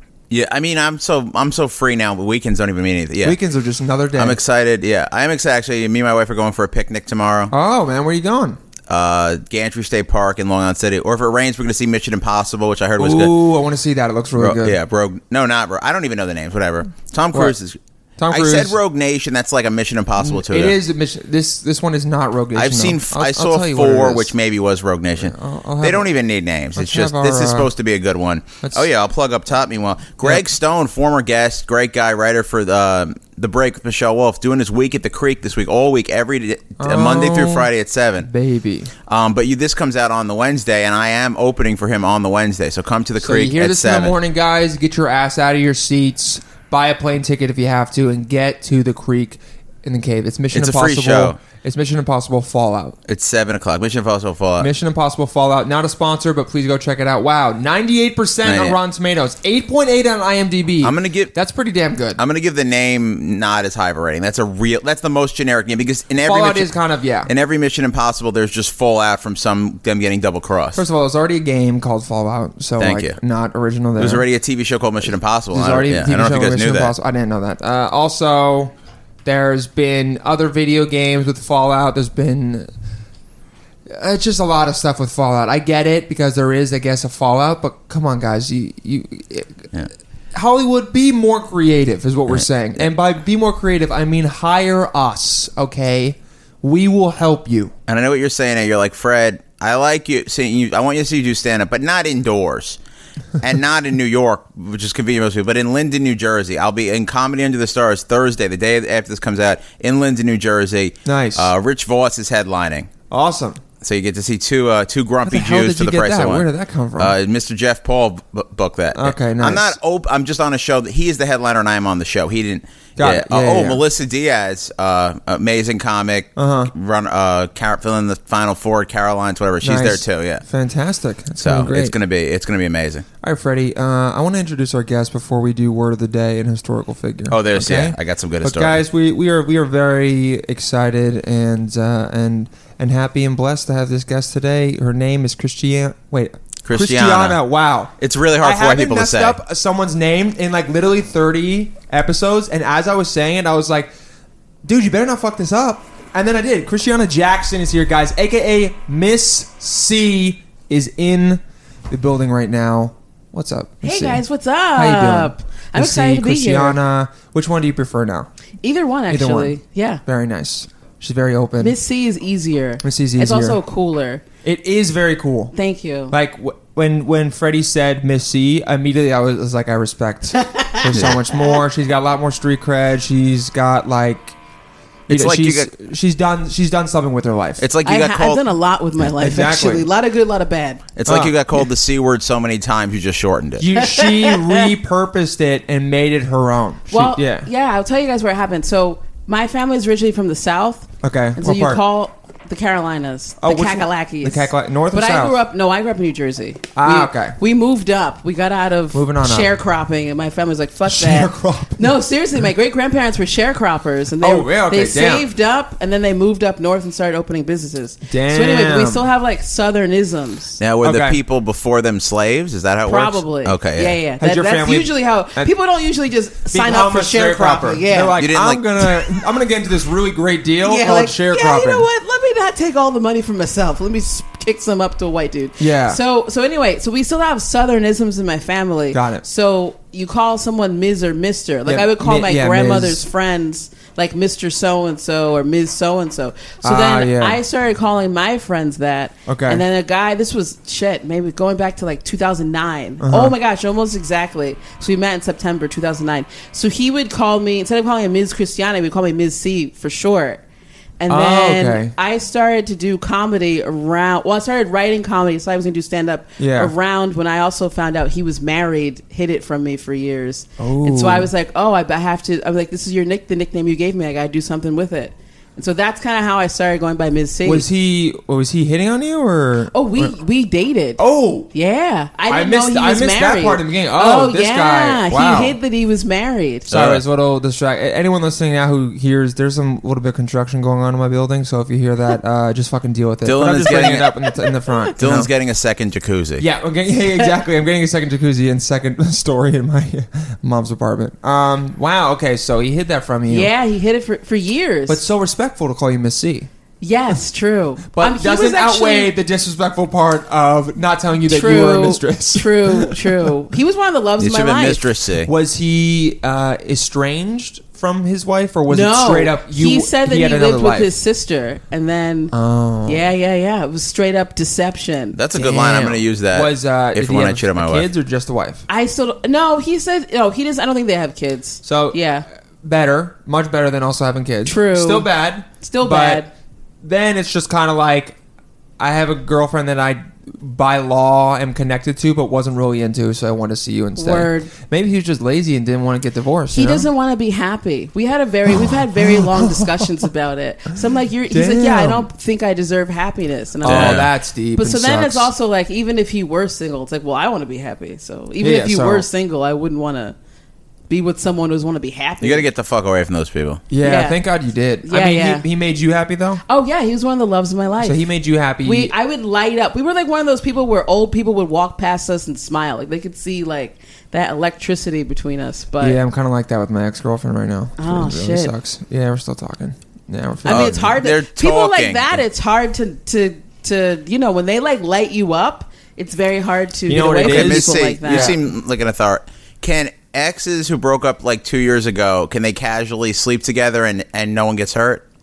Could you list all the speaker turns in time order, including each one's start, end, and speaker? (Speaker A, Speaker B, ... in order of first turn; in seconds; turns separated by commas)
Speaker A: 0.3-3.4, Speaker B: 3.2-4.4, Speaker A: 4.1-7.5, Speaker B: 7.5-8.6, Speaker A: 8.9-13.4, Speaker B: 13.0-14.8, Speaker A: 14.4-17.8, Speaker B: 18.2-18.8, Speaker A: 18.3-20.8, Speaker B: 20.2-24.3, Speaker A: 22.5-38.3, Speaker B: 25.2-26.1, Speaker B: 26.8-27.7, Speaker B: 36.8-37.7, Speaker B: 38.2-38.9, Speaker A: 39.1-44.1, Speaker B: 43.2-53.0, Speaker A: 50.5-51.4, Speaker A: 53.1-54.7, Speaker B: 54.6-62.2, Speaker A: 58.4-58.8, Speaker A: 60.8-61.3, Speaker A: 62.2-66.7, Speaker B: 66.2-67.3, Speaker A: 67.2-70.8, Speaker B: 70.7-74.2, Speaker A: 72.8-73.2, Speaker A: 74.0-76.9, Speaker B: 75.5-78.7, Speaker B: 79.2-82.7, Speaker B: 83.9-89.7, Speaker B: 90.3-97.7, Speaker A: 97.9-102.8, Speaker A: 103.4-112.9, Speaker B: 111.0-111.5, Speaker B: 113.1-113.6, Speaker A: 113.8-116.5, Speaker B: 115.2-117.1, Speaker A: 117.0-130.4, Speaker B: 118.9-119.8, Speaker B: 123.0-123.8, Speaker B: 126.3-126.7, Speaker B: 129.6-131.9, Speaker A: 131.4-133.1, Speaker B: 133.2-153.9, Speaker A: 137.3-138.8, Speaker A: 146.6-147.4, Speaker A: 148.0-149.4, Speaker B: 154.6-164.2, Speaker C: 163.8-166.8, Speaker B: 164.7-168.3, Speaker C: 168.6-170.0, Speaker B: 169.1-171.8, Speaker C: 171.6-174.2, Speaker B: 172.8-173.6, Speaker B: 174.4-175.5, Speaker C: 175.5-176.1, Speaker B: 176.1-184.3, Speaker C: 180.4-181.1, Speaker A: 180.9-181.1, Speaker A: 185.1-185.7, Speaker B: 185.1-187.6, Speaker A: 187.6-188.4, Speaker C: 187.8-190.8, Speaker B: 189.2-189.9, Speaker A: 190.9-193.7, Speaker B: 191.1-191.7, Speaker B: 193.6-197.5, Speaker C: 193.8-194.7, Speaker C: 196.9-220.6, Speaker B: 201.0-201.8, Speaker B: 203.4-205.3, Speaker B: 206.8-207.4, Speaker B: 208.9-209.5, Speaker B: 210.9-211.9, Speaker B: 214.2-215.3, Speaker B: 218.1-219.1, Speaker A: 220.6-224.0, Speaker B: 220.8-221.2, Speaker C: 222.8-228.2, Speaker B: 224.2-225.5, Speaker B: 226.5-231.9, Speaker A: 228.2-229.0, Speaker C: 230.6-260.4, Speaker B: 235.6-236.0, Speaker B: 238.9-239.2, Speaker B: 241.7-243.0, Speaker B: 246.6-247.4, Speaker B: 249.2-249.6, Speaker B: 253.0-253.3, Speaker C: 261.0-277.6, Speaker B: 261.1-261.9, Speaker B: 266.4-266.7, Speaker B: 270.6-271.3, Speaker B: 277.4-280.1, Speaker C: 279.7-281.0, Speaker B: 281.0-281.5, Speaker C: 281.5-286.7, Speaker B: 282.3-285.6, Speaker A: 286.7-287.0, Speaker B: 286.7-295.3, Speaker A: 293.2-294.1, Speaker A: 295.0-296.4, Speaker B: 296.4-303.5, Speaker C: 303.3-305.0, Speaker B: 304.9-306.5, Speaker C: 306.8-309.1, Speaker B: 307.9-313.3, Speaker C: 311.3-314.9, Speaker A: 314.2-315.3, Speaker B: 315.2-320.9, Speaker C: 318.7-322.3, Speaker B: 322.3-323.1, Speaker C: 322.8-325.2, Speaker A: 325.1-327.9, Speaker B: 325.3-328.6, Speaker C: 328.7-332.2, Speaker B: 331.6-332.0, Speaker B: 332.6-336.2, Speaker C: 334.4-336.3, Speaker B: 336.8-338.2, Speaker B: 338.8-346.9, Speaker C: 343.9-344.5, Speaker C: 346.5-360.1, Speaker B: 348.6-349.9, Speaker B: 351.3-352.1, Speaker B: 353.6-355.3, Speaker A: 353.6-354.1, Speaker B: 358.4-359.1, Speaker C: 360.9-362.4, Speaker A: 362.2-363.6, Speaker B: 363.7-366.4, Speaker C: 363.8-364.2, Speaker C: 364.8-365.4, Speaker C: 366.5-368.0, Speaker B: 367.8-368.9, Speaker C: 368.6-376.0, Speaker B: 375.8-380.9, Speaker C: 377.8-378.5, Speaker C: 380.4-388.4, Speaker A: 380.5-382.2, Speaker B: 386.9-388.4, Speaker A: 387.2-395.0